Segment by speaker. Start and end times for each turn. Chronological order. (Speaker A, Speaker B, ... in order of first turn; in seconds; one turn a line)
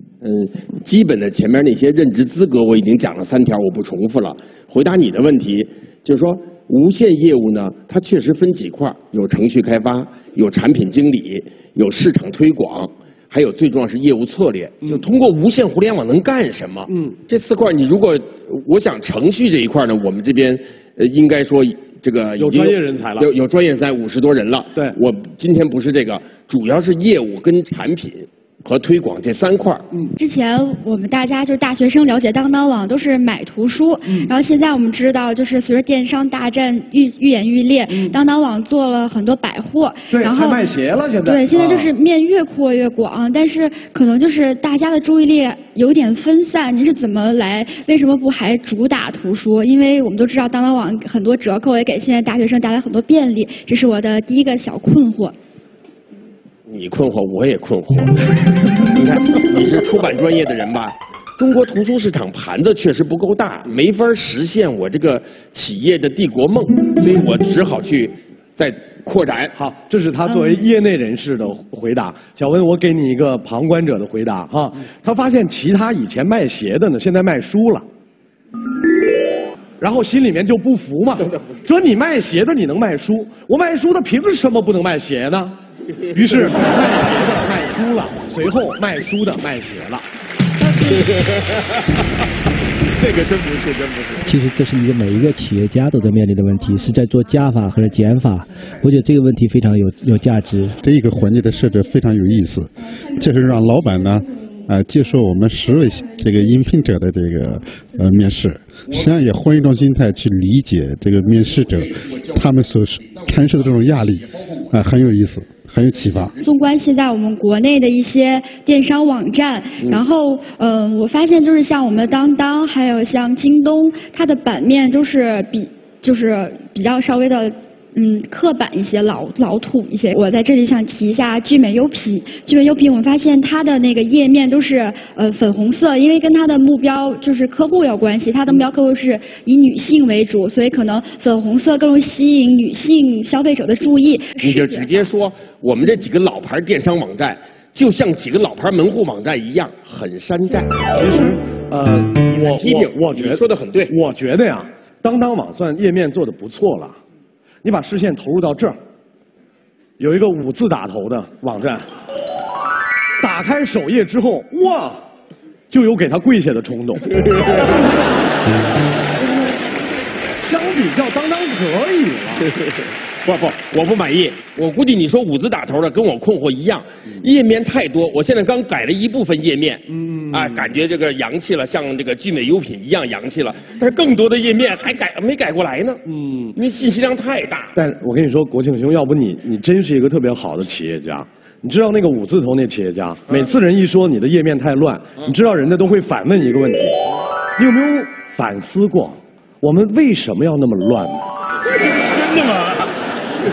Speaker A: 0.2-29.9
Speaker B: 16.9-17.2
Speaker B: 22.4-23.3
Speaker C: 30.2-40.6
Speaker B: 34.1-34.3
Speaker B: 37.9-38.2
Speaker B: 40.1-41.9
Speaker C: 41.2-55.4
Speaker A: 56.7-58.3
Speaker A: 58.8-69.5
Speaker B: 69.5-77.9
Speaker B: 79.8-85.6
Speaker B: 86.1-90.1
Speaker A: 90.9-91.4
Speaker A: 93.0-94.2
Speaker D: 94.2-100.8
Speaker E: 100.8-116.3
Speaker C: 116.4-144.9
Speaker A: 144.4-150.8
Speaker B: 150.9-157.0
Speaker A: 152.5-153.9
Speaker B: 157.6-158.8
Speaker B: 160.0-161.9
Speaker B: 163.2-165.0
Speaker B: 165.7-167.1
Speaker B: 170.4-172.5
Speaker A: 173.2-186.0
Speaker B: 179.9-180.7
Speaker B: 186.1-186.6
Speaker A: 186.5-187.8
Speaker B: 187.8-197.0
Speaker B: 197.6-201.3